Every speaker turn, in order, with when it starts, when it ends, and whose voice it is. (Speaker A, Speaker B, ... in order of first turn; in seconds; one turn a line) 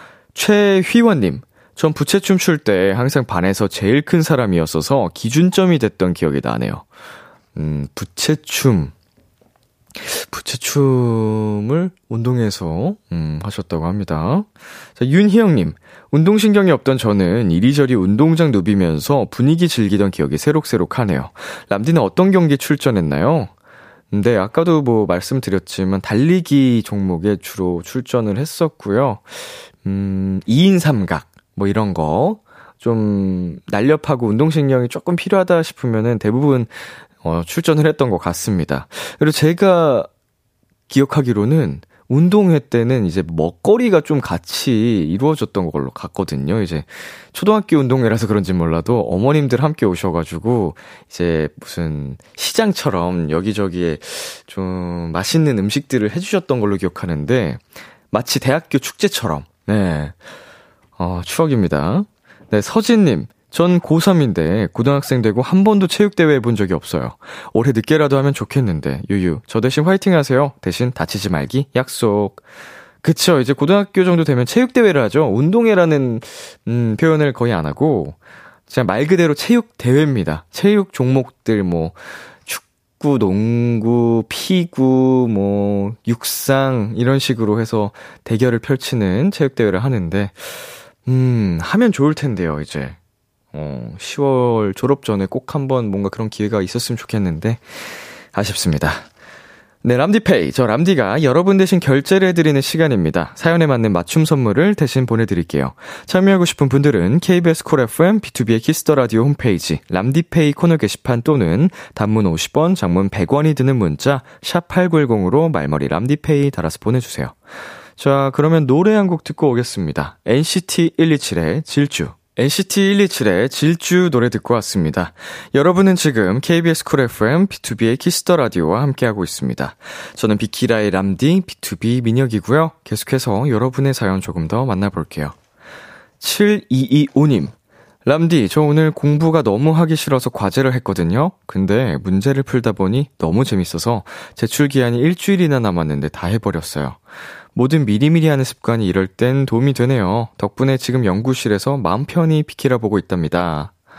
Speaker A: 0.3-6.8
Speaker A: 7.6-8.9
Speaker A: 10.0-23.5
Speaker A: 24.1-40.1
Speaker A: 40.9-60.2
Speaker A: 61.0-72.4
Speaker A: 73.0-78.2
Speaker A: 78.7-93.0
Speaker A: 93.5-99.1
Speaker A: 99.8-117.4
Speaker A: 118.0-135.3
Speaker A: 136.2-137.5
Speaker A: 138.1-147.0
Speaker A: 147.6-153.7